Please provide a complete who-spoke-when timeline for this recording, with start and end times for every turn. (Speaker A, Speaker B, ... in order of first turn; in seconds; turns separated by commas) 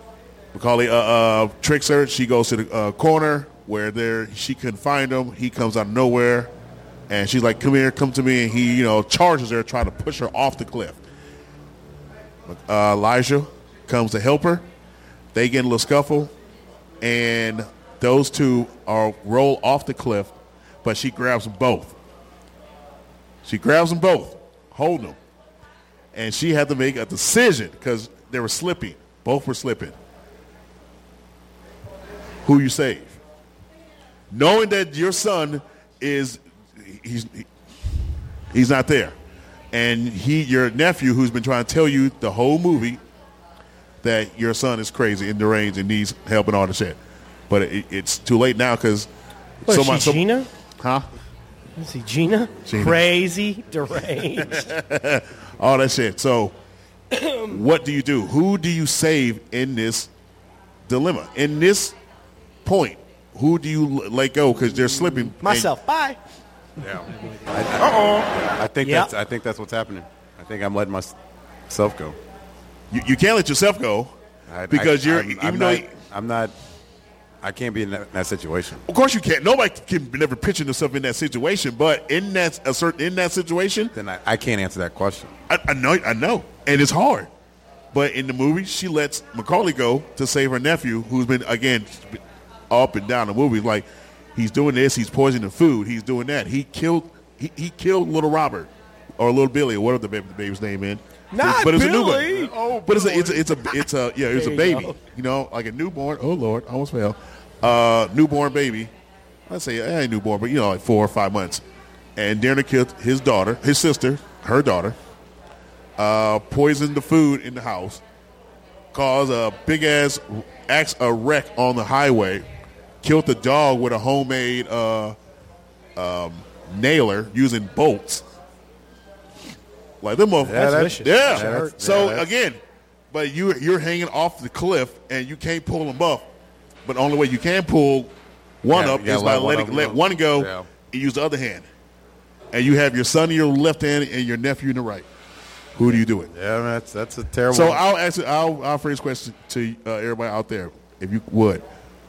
Speaker A: 0.5-6.5, Speaker A: 7.1-11.0, Speaker A: 12.4-14.6, Speaker A: 15.3-16.3, Speaker A: 17.0-22.0, Speaker A: 23.4-25.2, Speaker A: 26.1-29.9, Speaker A: 32.4-33.2, Speaker A: 34.3-37.5, Speaker A: 38.5-39.1, Speaker A: 39.7-43.0, Speaker A: 44.0-47.0, Speaker A: 47.5-49.1, Speaker A: 49.6-50.3, Speaker B: 49.6-50.5, Speaker A: 50.8-51.1, Speaker B: 51.8-54.7, Speaker A: 52.7-53.0, Speaker A: 54.4-56.5, Speaker B: 57.1-57.4, Speaker A: 57.4-60.1, Speaker A: 60.9-62.0, Speaker A: 62.6-65.7, Speaker B: 65.4-66.2, Speaker C: 66.8-71.1, Speaker B: 68.8-69.1, Speaker C: 71.7-72.2, Speaker A: 72.9-74.1, Speaker C: 74.5-76.5, Speaker A: 74.7-75.9, Speaker C: 77.4-78.8, Speaker A: 78.9-83.9, Speaker C: 84.0-85.3, Speaker A: 85.5-87.3, Speaker A: 87.9-108.9, Speaker B: 101.3-102.5, Speaker C: 102.3-103.5, Speaker B: 104.3-105.0, Speaker A: 109.5-111.6, Speaker A: 112.2-115.0, Speaker A: 116.0-118.0, Speaker A: 118.9-122.5, Speaker A: 123.0-125.2, Speaker A: 126.0-128.2, Speaker A: 130.0-132.6, Speaker C: 130.4-132.3, Speaker B: 130.5-131.8, Speaker A: 133.1-136.3, Speaker A: 136.8-138.1, Speaker A: 138.6-141.7, Speaker C: 138.7-140.7, Speaker A: 142.5-145.1, Speaker A: 145.7-146.3, Speaker C: 145.9-147.8, Speaker A: 147.5-151.6